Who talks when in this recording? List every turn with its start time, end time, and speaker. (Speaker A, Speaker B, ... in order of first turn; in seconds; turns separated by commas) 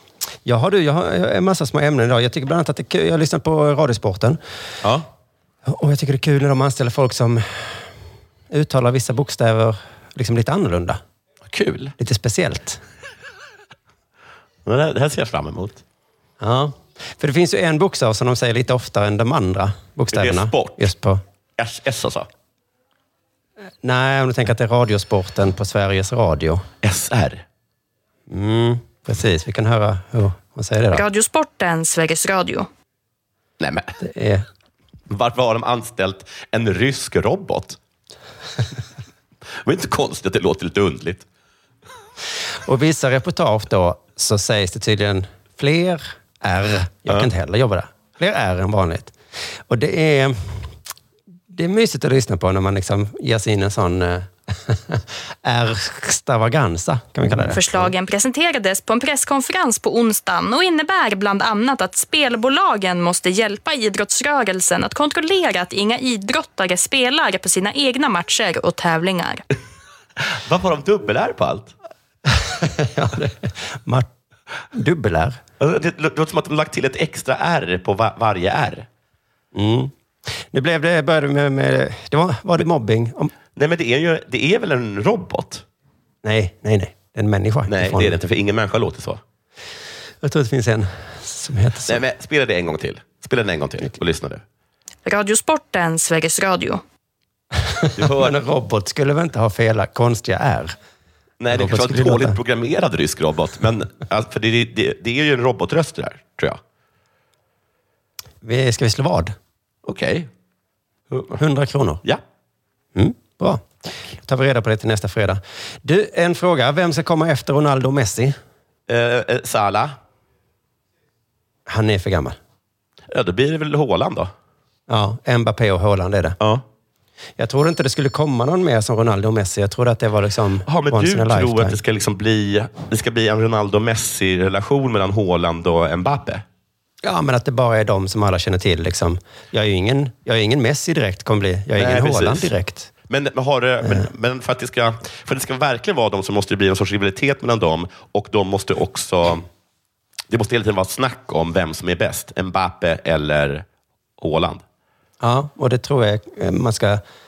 Speaker A: 0.5-4.4, Speaker B: 4.8-5.1, Speaker A: 5.7-7.9, Speaker A: 8.5-11.0, Speaker B: 11.5-11.9, Speaker A: 12.0-12.8, Speaker B: 14.7-15.8, Speaker A: 16.4-21.2, Speaker B: 20.1-20.9, Speaker B: 21.6-22.3, Speaker A: 23.8-26.7, Speaker B: 26.8-27.4, Speaker A: 28.3-31.0, Speaker C: 30.9-32.7, Speaker B: 33.6-33.9, Speaker A: 34.0-34.5, Speaker B: 35.1-37.8, Speaker B: 39.6-41.3, Speaker A: 42.6-49.1, Speaker A: 49.7-50.7, Speaker A: 51.5-57.9, Speaker C: 57.4-69.4, Speaker B: 70.2-71.7, Speaker A: 72.3-74.1, Speaker A: 74.7-75.4, Speaker B: 75.6-78.9, Speaker A: 79.5-79.9, Speaker A: 80.5-83.3, Speaker B: 83.5-85.7, Speaker A: 86.2-88.2, Speaker B: 87.7-89.2, Speaker A: 90.2-92.0, Speaker B: 91.9-94.4, Speaker C: 95.0-96.8, Speaker A: 97.6-100.8, Speaker B: 98.0-98.4, Speaker B: 101.4-106.6, Speaker A: 101.5-102.4, Speaker A: 108.4-109.4, Speaker B: 109.8-110.3, Speaker B: 111.1-111.4, Speaker A: 111.4-112.0, Speaker A: 113.0-118.4, Speaker B: 118.9-120.0, Speaker A: 121.7-122.4, Speaker B: 123.1-124.3, Speaker A: 124.9-126.4, Speaker B: 126.4-126.7, Speaker A: 127.4-131.8, Speaker B: 130.7-136.4, Speaker A: 137.0-142.9, Speaker B: 141.8-142.5, Speaker B: 143.1-149.5, Speaker B: 150.3-153.7, Speaker B: 154.2-154.6, Speaker A: 155.2-157.0